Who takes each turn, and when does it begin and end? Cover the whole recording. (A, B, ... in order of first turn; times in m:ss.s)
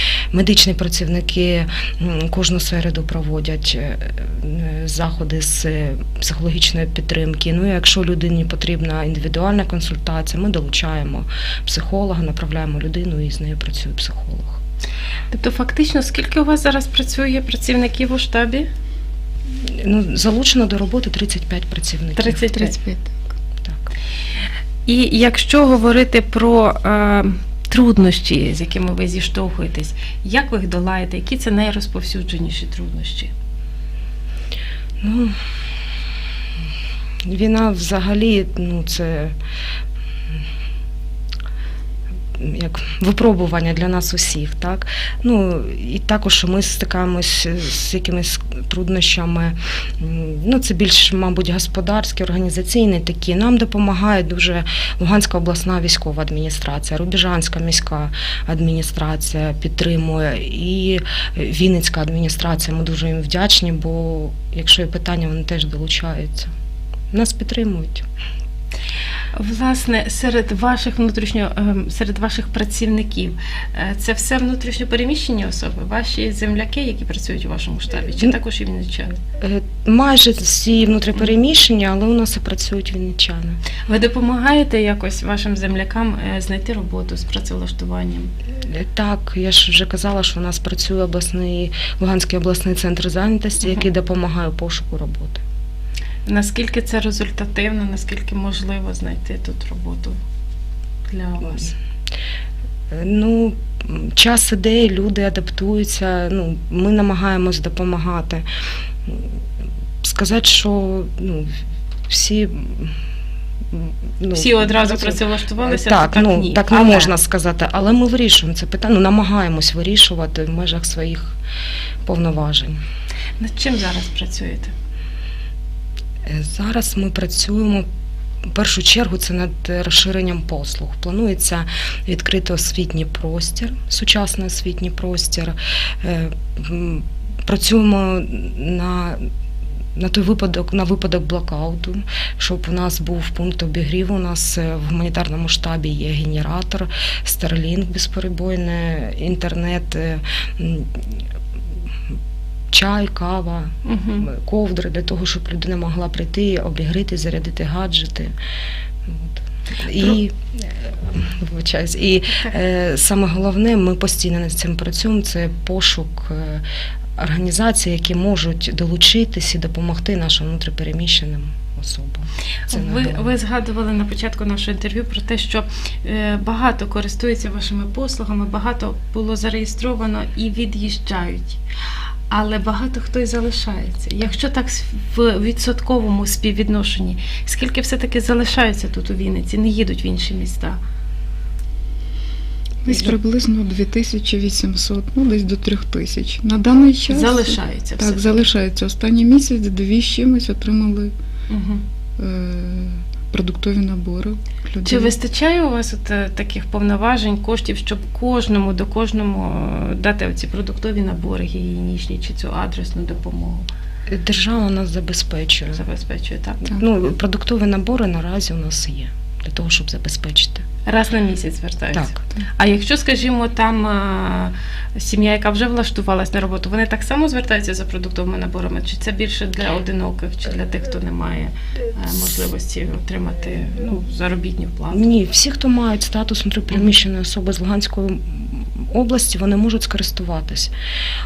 0:00.3-0:14.6 A
0:15.3-0:18.7 B
0:19.7-0:22.6 A
0:22.2-0:22.8 B
0:22.6-0:23.3 C
0:23.6-0:23.9 A
0:24.9-0:33.3 B
0:35.0-0:35.4 A
0:37.2-0:39.4 A
0:42.4-1:06.5 A
1:07.1-1:08.0 A
1:09.4-1:19.2 B
1:19.4-1:23.6 A
1:23.9-1:28.3 B
1:28.6-1:35.4 A
1:36.2-1:40.2 B
1:41.1-1:41.8 B
1:42.9-1:48.4 A
1:50.0-1:51.5 A
1:52.1-1:53.0 A
1:53.7-2:01.4 A
1:54.3-1:57.1 B
2:02.0-2:02.8 A
2:03.4-2:04.7 B
2:06.2-2:07.9 A
2:08.5-2:19.2 A
2:20.0-2:31.0 A
2:32.7-2:33.7 A
2:33.8-2:34.3 B
2:34.2-2:38.3 A
2:39.1-2:46.6 A
2:47.2-2:53.3 A
2:52.7-3:01.6 B
3:02.3-3:10.8 B
3:12.8-3:21.1 C
3:17.1-3:18.4 B
3:21.5-3:21.8 B
3:22.2-3:25.1 C
3:24.8-3:33.7 B
3:34.1-3:35.8 A
3:35.7-3:36.6 B
3:36.7-3:40.6 A
3:40.9-3:55.1 B
3:54.9-4:00.7 A